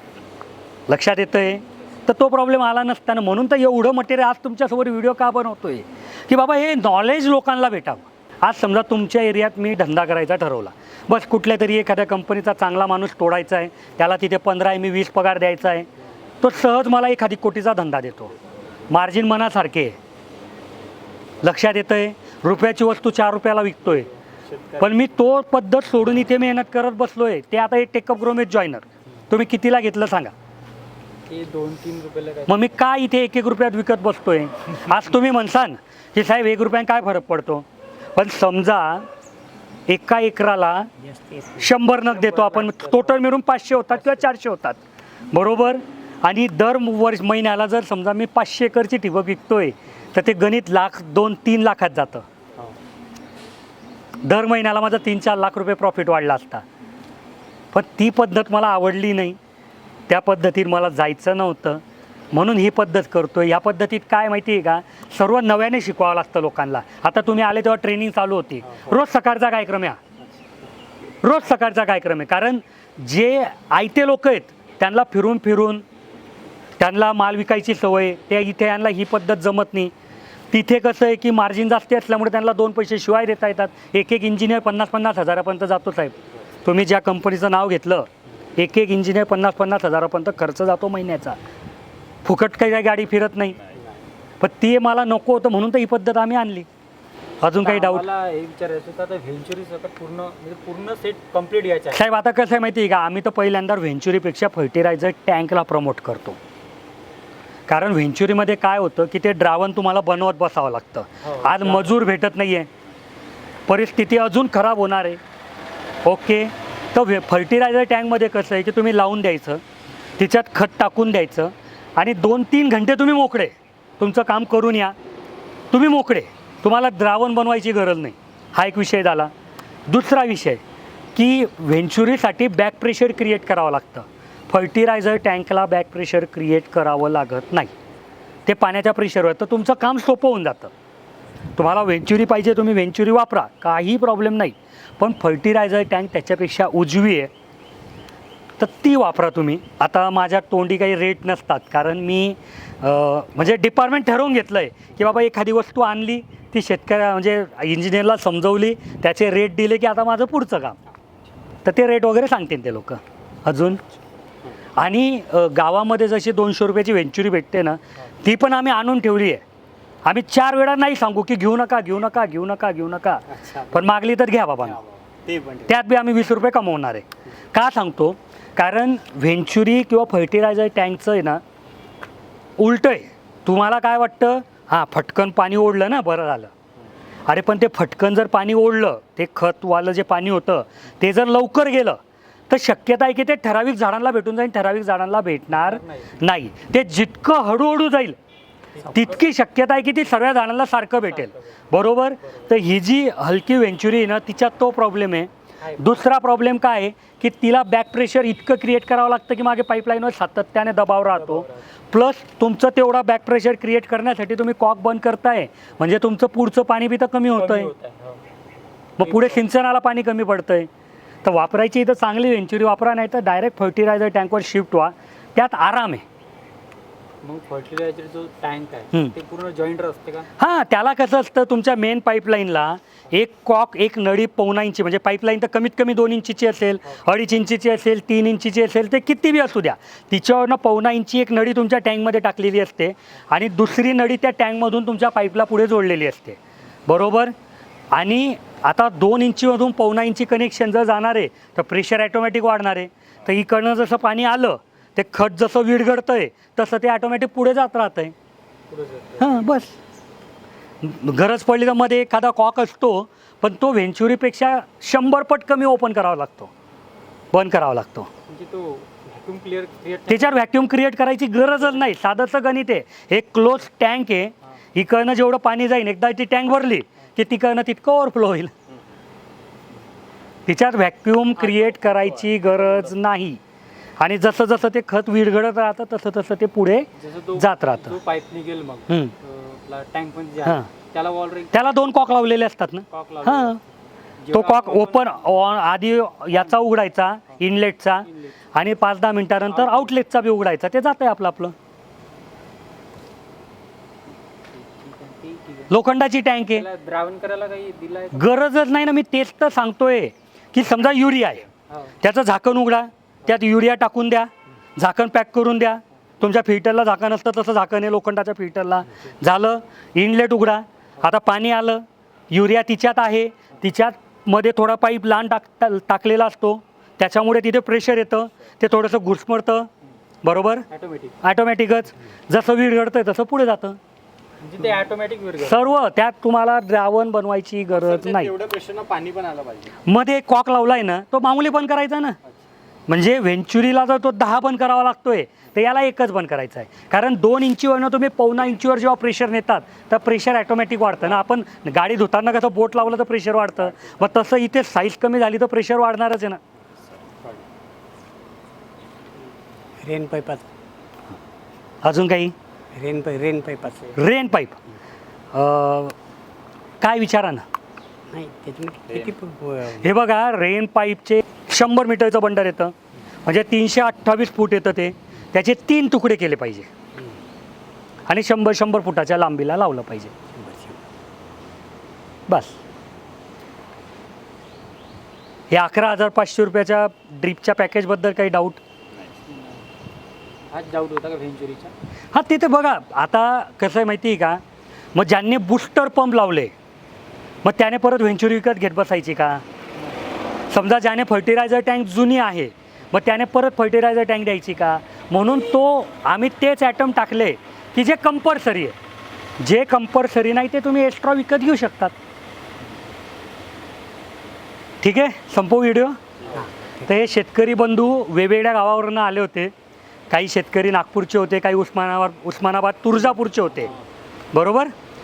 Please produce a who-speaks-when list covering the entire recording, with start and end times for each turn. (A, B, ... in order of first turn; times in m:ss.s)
0:00.9-0:15.9 A
0:16.4-0:18.3 A
0:18.9-0:20.0 A
0:21.4-0:24.1 A
0:24.5-0:24.8 B
0:24.8-0:30.3 A
0:31.3-0:32.8 C
0:32.5-0:39.1 A
0:39.9-0:40.9 A
0:41.0-0:41.7 D
0:41.6-0:44.8 A
0:42.1-0:43.1 C
0:45.3-0:52.2 A
0:54.2-0:56.6 A
0:57.7-0:59.4 A
1:00.1-1:10.0 A
1:11.2-1:15.8 A
1:16.8-1:19.9 A
1:20.5-1:31.4 A
1:32.2-1:33.6 A
1:34.4-1:36.7 A
1:37.4-1:38.0 A
1:37.5-1:42.0 C
1:41.9-1:46.4 A
1:47.7-1:52.7 A
1:51.2-1:52.0 C
1:53.7-1:55.2 A
1:56.0-1:59.6 A
2:00.2-2:04.9 A
2:05.7-2:09.3 A
2:09.9-2:10.6 A
2:11.2-2:17.7 A
2:18.5-2:20.7 A
2:21.6-2:27.3 A
2:28.6-2:40.8 A
2:41.6-2:43.8 A
2:44.8-2:49.4 A
2:50.0-2:54.8 A
2:54.8-2:55.0 C
2:55.2-2:55.7 B
2:55.7-3:01.4 A
3:02.6-3:06.5 A
3:07.3-3:12.0 A
3:12.5-3:18.2 A
3:15.5-3:16.2 C
3:18.8-3:19.2 C
3:18.9-3:37.7 A
3:31.2-3:31.6 C
3:37.3-3:38.2 C
3:39.0-3:40.7 A
3:39.0-3:39.4 C
3:41.2-3:46.0 A
3:47.2-3:50.3 C
3:50.4-4:07.3 A
4:07.9-4:18.1 A
4:18.7-4:19.5 C
4:19.2-4:19.8 A
4:20.8-4:26.5 A
4:27.3-4:28.1 A
4:28.3-4:30.5 C
4:30.1-4:38.5 A
4:40.5-4:43.4 A
4:41.4-4:42.1 C
4:44.0-4:48.0 A
4:47.0-4:51.5 C
4:48.9-4:49.1 A
4:51.5-4:53.6 A
4:52.9-4:53.6 C
4:54.2-4:55.4 C
4:54.3-5:01.5 A
4:58.1-4:58.3 C
4:59.5-4:59.9 C
5:04.5-5:05.8 C
5:05.7-5:06.7 A
5:06.5-5:08.3 C
5:08.1-5:11.5 A
5:11.7-5:12.0 C
5:12.0-5:29.7 A
5:30.2-5:30.7 A
5:30.7-5:31.2 C
5:31.2-5:33.8 A
5:34.4-5:35.8 C
5:35.4-5:38.4 A
5:37.7-5:39.7 B
5:39.9-5:42.2 A
5:42.9-5:56.4 A
5:59.8-6:00.5 D
6:01.8-6:02.3 A
6:02.7-6:04.0 D
6:04.0-6:04.6 A
6:05.3-6:05.9 A
6:06.8-6:07.4 A
6:08.1-6:09.9 D
6:09.7-6:12.7 A
6:13.2-6:16.7 A
6:18.1-6:20.1 A
6:20.3-6:20.8 D
6:22.3-6:22.6 A
6:25.5-6:28.6 A
6:29.3-6:29.6 C
6:30.5-6:31.7 C
6:32.1-6:34.4 A
6:35.0-6:36.5 A
6:37.4-6:39.4 A
6:40.5-6:48.8 A
6:49.4-6:51.9 A
6:54.8-6:56.0 A
6:56.3-6:56.7 D
6:56.8-6:59.5 A
7:00.1-7:03.8 A
7:04.3-7:04.7 A